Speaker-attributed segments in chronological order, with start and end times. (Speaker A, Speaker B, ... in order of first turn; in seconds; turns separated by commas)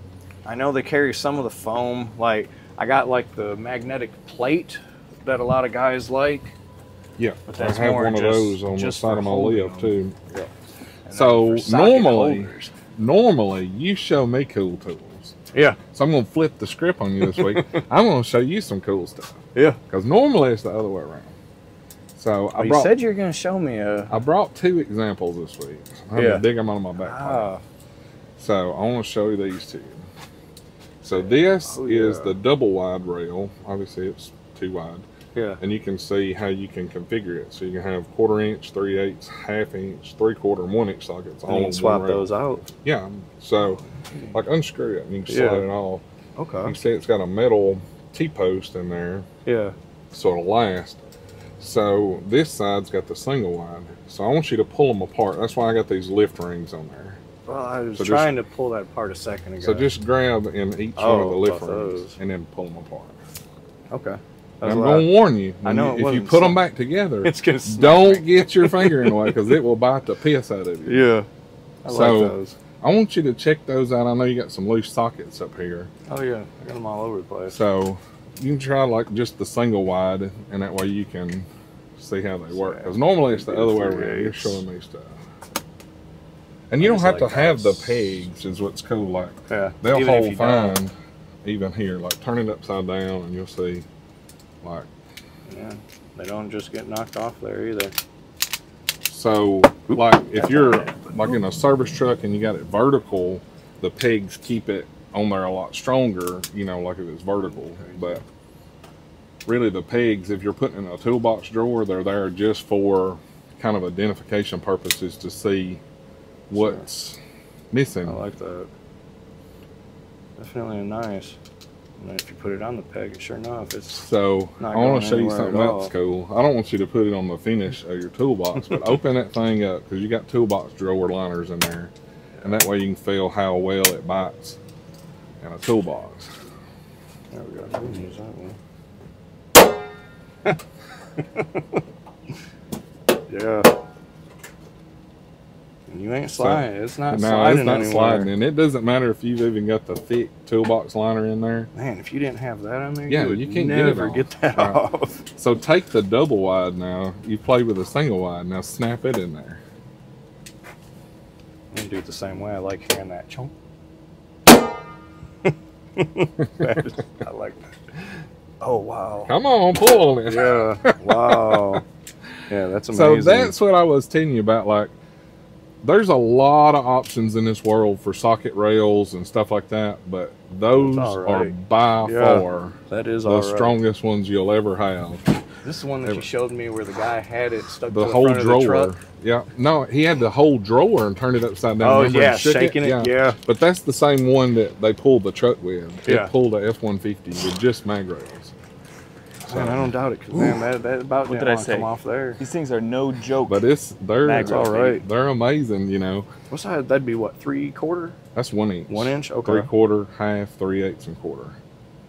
Speaker A: 0.5-6.5, Speaker B: 7.2-10.5, Speaker A: 7.5-10.0, Speaker A: 11.1-12.7, Speaker B: 11.1-15.4, Speaker A: 15.5-15.8, Speaker B: 15.9-21.3, Speaker A: 17.2-17.7, Speaker B: 22.1-22.9, Speaker A: 22.6-24.2, Speaker B: 24.1-27.5, Speaker A: 26.1-26.4, Speaker A: 27.0-27.6, Speaker B: 28.4-30.0, Speaker B: 31.0-35.1, Speaker A: 31.2-32.4, Speaker A: 35.4-35.6, Speaker B: 35.6-42.2, Speaker A: 41.5-42.7, Speaker B: 42.8-43.8, Speaker B: 44.3-46.0, Speaker A: 45.3-45.7, Speaker A: 46.4-46.8, Speaker B: 46.6-49.3, Speaker A: 49.5-49.8, Speaker B: 50.1-51.0, Speaker B: 51.6-57.2, Speaker A: 57.5-59.9, Speaker B: 58.0-58.3, Speaker B: 59.6-63.2, Speaker A: 61.0-62.2, Speaker A: 63.9-65.1, Speaker B: 64.6-71.1, Speaker A: 65.6-66.6, Speaker A: 67.2-69.5, Speaker A: 70.9-71.3, Speaker A: 71.8-72.6, Speaker B: 71.9-75.9, Speaker A: 76.1-77.6, Speaker B: 77.5-85.2, Speaker A: 82.5-84.6, Speaker B: 86.7-90.9, Speaker A: 86.8-88.2, Speaker A: 89.5-90.8, Speaker B: 91.4-93.9, Speaker B: 94.6-94.9, Speaker A: 95.5-98.0, Speaker B: 99.1-108.2, Speaker A: 100.3-101.2, Speaker A: 107.5-108.2, Speaker B: 109.5-115.8, Speaker B: 116.5-117.2, Speaker A: 116.5-116.9, Speaker B: 117.7-118.2, Speaker A: 118.0-118.7, Speaker A: 120.4-121.4, Speaker A: 122.0-124.1, Speaker B: 123.9-131.9, Speaker A: 124.6-125.9, Speaker A: 132.4-132.7, Speaker B: 132.4-134.6, Speaker B: 135.4-136.3, Speaker A: 137.3-138.6, Speaker A: 141.2-141.8, Speaker A: 143.3-143.7, Speaker A: 145.9-148.3, Speaker B: 146.3-151.7, Speaker A: 151.8-155.2, Speaker B: 153.1-159.6, Speaker A: 161.7-163.5, Speaker A: 165.4-167.7, Speaker B: 166.4-166.8, Speaker A: 168.6-169.3, Speaker B: 169.3-171.8, Speaker A: 170.3-171.8, Speaker A: 172.5-173.5, Speaker B: 172.9-174.9, Speaker B: 175.8-185.4, Speaker A: 180.7-183.8, Speaker A: 185.6-189.0, Speaker B: 187.9-198.5, Speaker A: 191.8-193.4, Speaker A: 196.1-196.3, Speaker B: 199.5-199.9, Speaker A: 199.5-202.4, Speaker C: 200.3-200.6, Speaker C: 201.3-203.7, Speaker B: 203.5-206.3, Speaker C: 204.2-204.9, Speaker A: 204.4-205.0, Speaker A: 206.5-208.2, Speaker B: 208.3-211.6, Speaker A: 208.9-209.7